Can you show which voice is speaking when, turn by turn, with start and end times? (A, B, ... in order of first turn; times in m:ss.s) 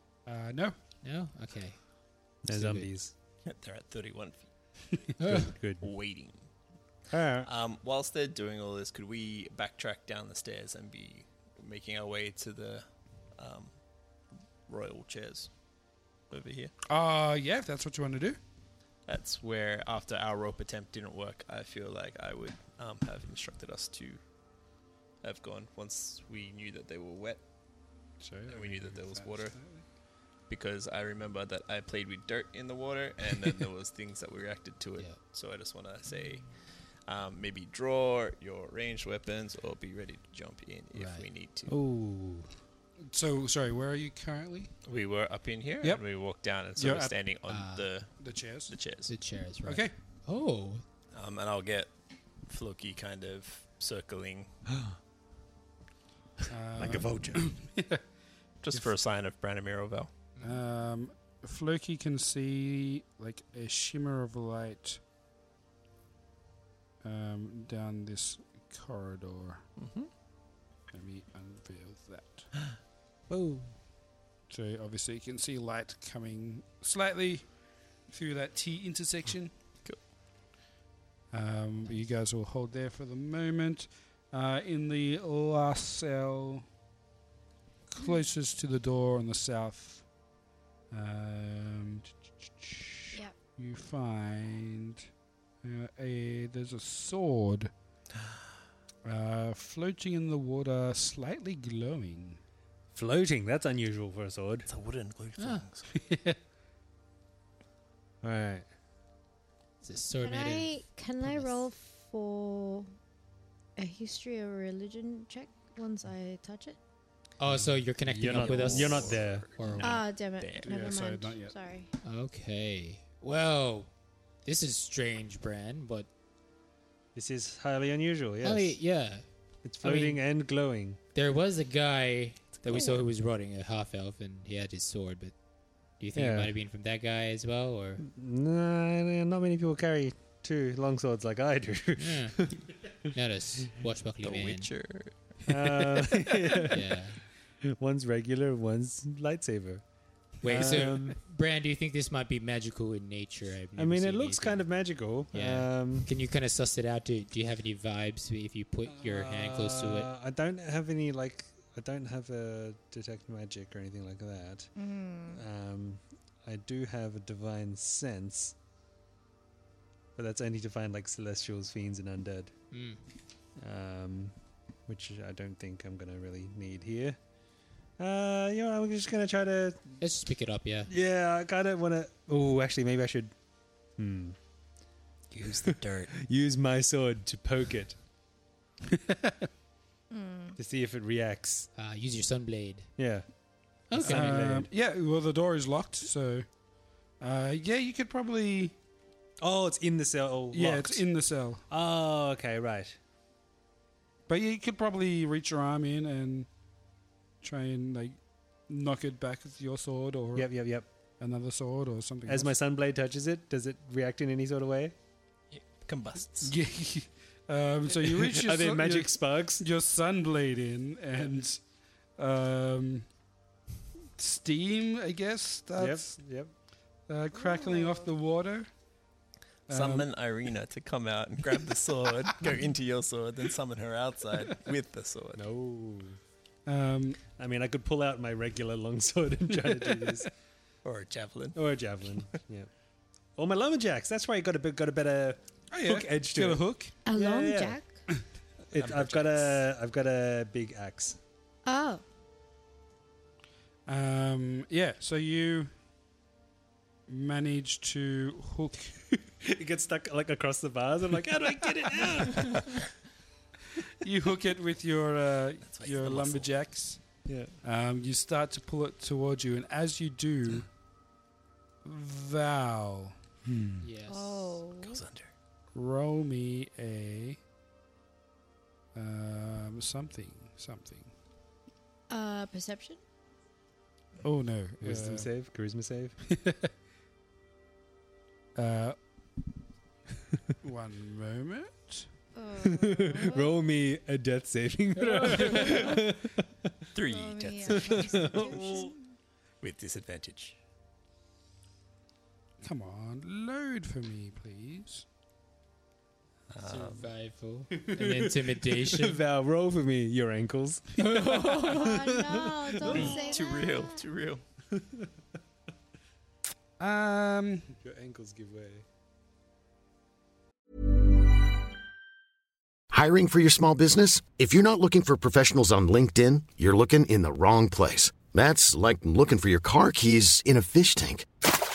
0:00.2-0:00.8 A
0:01.0-0:01.8 B
0:02.4-0:03.1 C
0:02.5-0:02.9 B
0:03.4-0:04.5 D
0:05.2-0:05.5 B
0:05.2-0:05.9 C
0:05.8-0:06.5 D
0:07.1-0:07.5 C
0:07.4-0:12.8 D
0:13.4-0:13.7 D
0:14.7-0:15.5 D
0:16.3-0:16.7 D
0:16.9-0:18.4 A
0:19.1-0:24.2 D
0:25.2-0:27.4 D
0:28.2-0:29.8 A
0:28.5-0:29.6 D
0:30.5-0:36.4 D
0:37.1-0:41.8 D
0:40.9-0:41.2 B
0:41.7-0:42.5 C
0:43.1-0:44.7 A
0:44.9-0:48.1 D
0:46.8-0:47.1 A
0:47.5-0:47.9 B
0:48.2-0:48.7 A
0:48.7-0:49.1 D
0:49.1-0:50.8 B
0:49.6-0:49.9 A
0:51.1-0:51.9 D
0:52.4-0:54.5 D
0:56.5-0:58.0 A
0:56.8-0:57.4 D
0:58.6-1:00.1 D
1:00.4-1:05.0 A
1:07.0-1:09.6 A
1:09.8-1:10.1 D
1:10.9-1:12.5 A
1:13.3-1:13.7 C
1:14.5-1:17.4 A
1:18.1-1:19.5 A
1:21.3-1:26.6 A
1:27.9-1:30.0 A
1:30.9-1:35.0 A
1:35.6-1:37.7 A
1:39.0-1:42.4 A
1:42.9-1:44.7 C
1:44.7-1:45.9 D
1:45.4-1:45.6 B
1:46.0-1:46.4 A
1:48.2-1:48.7 C
1:49.8-1:51.6 B
1:50.2-1:52.9 E
1:53.8-1:56.8 E
1:57.4-2:00.0 B
1:57.5-1:59.7 C
1:58.2-2:00.6 D
1:59.8-2:01.9 E
2:00.6-2:01.5 A
2:02.0-2:03.9 B
2:04.4-2:06.1 B
2:07.1-2:08.8 C
2:08.4-2:09.2 B
2:09.6-2:11.0 C
2:09.8-2:10.2 B
2:11.1-2:15.3 B
2:12.6-2:13.0 D
2:16.0-2:18.0 B
2:16.2-2:16.5 C
2:18.0-2:22.7 C
2:22.0-2:22.6 B
2:23.1-2:24.7 B
2:24.2-2:25.1 D
2:25.5-2:27.0 C
2:26.7-2:27.2 B
2:27.6-2:29.8 C
2:30.4-2:34.7 B
2:30.4-2:31.2 C
2:33.8-2:36.1 C
2:35.3-2:40.1 B
2:38.8-2:44.7 C
2:44.8-2:45.4 E
2:45.3-2:48.5 C
2:50.2-2:52.5 C
2:52.7-2:53.0 B
2:53.6-2:54.3 C
2:54.9-2:57.2 C
2:58.0-2:59.8 C
3:00.0-3:00.9 B
3:00.9-3:03.3 C
3:04.0-3:04.4 C
3:05.4-3:06.1 B
3:05.6-3:08.0 C
3:08.9-3:09.5 A
3:10.1-3:10.6 E
3:10.6-3:11.7 C
3:11.8-3:12.9 B
3:13.0-3:13.2 C
3:13.9-3:14.4 B
3:13.9-3:14.7 C
3:14.0-3:16.4 A
3:17.2-3:18.7 A
3:19.4-3:21.1 C
3:20.5-3:21.6 A
3:21.7-3:23.0 C
3:24.3-3:26.5 A
3:27.4-3:30.5 A
3:30.3-3:30.9 C
3:31.2-3:32.5 A
3:32.2-3:34.9 C
3:35.5-3:36.5 D
3:36.4-3:41.6 A
3:38.0-3:39.6 C
3:42.2-3:43.1 A
3:44.2-3:46.2 A
3:45.8-3:46.5 C
3:47.1-3:48.7 A
3:47.3-3:48.1 E
3:49.7-3:50.1 A
3:49.7-3:55.4 D
3:55.3-3:56.2 C
3:56.6-3:57.2 A
3:57.4-4:00.3 C
4:00.8-4:01.6 D
4:01.5-4:02.7 C
4:03.4-4:07.8 C
4:05.7-4:06.9 A
4:07.0-4:08.0 E
4:08.7-4:11.2 C
4:08.7-4:09.6 D
4:11.6-4:12.0 E
4:13.9-4:15.7 A
4:17.1-4:19.1 A
4:19.4-4:22.8 C
4:24.0-4:27.0 A
4:25.6-4:26.5 D
4:27.2-4:27.6 C
4:27.6-4:30.7 A
4:31.8-4:33.8 A
4:33.8-4:34.6 B
4:34.1-4:35.0 E
4:34.8-4:35.3 D
4:35.7-4:37.4 A
4:38.9-4:41.1 A
4:42.1-4:43.0 E
4:44.2-4:45.3 A
4:44.8-4:46.2 C
4:46.3-4:46.7 A
4:48.6-4:49.0 A
4:50.6-4:52.1 A
4:52.3-4:53.7 E
4:52.6-4:56.5 C
4:55.0-4:56.0 B
4:56.9-4:58.7 D
4:57.0-4:59.0 E
4:57.6-4:58.9 C
4:59.6-5:00.6 D
5:02.6-5:05.0 A
5:06.5-5:07.1 D
5:06.6-5:09.2 B
5:07.8-5:13.2 C
5:11.0-5:11.9 B
5:11.7-5:14.0 E
5:12.9-5:14.4 D
5:14.7-5:15.1 C
5:16.8-5:17.7 A
5:17.8-5:18.8 C
5:22.9-5:31.3 F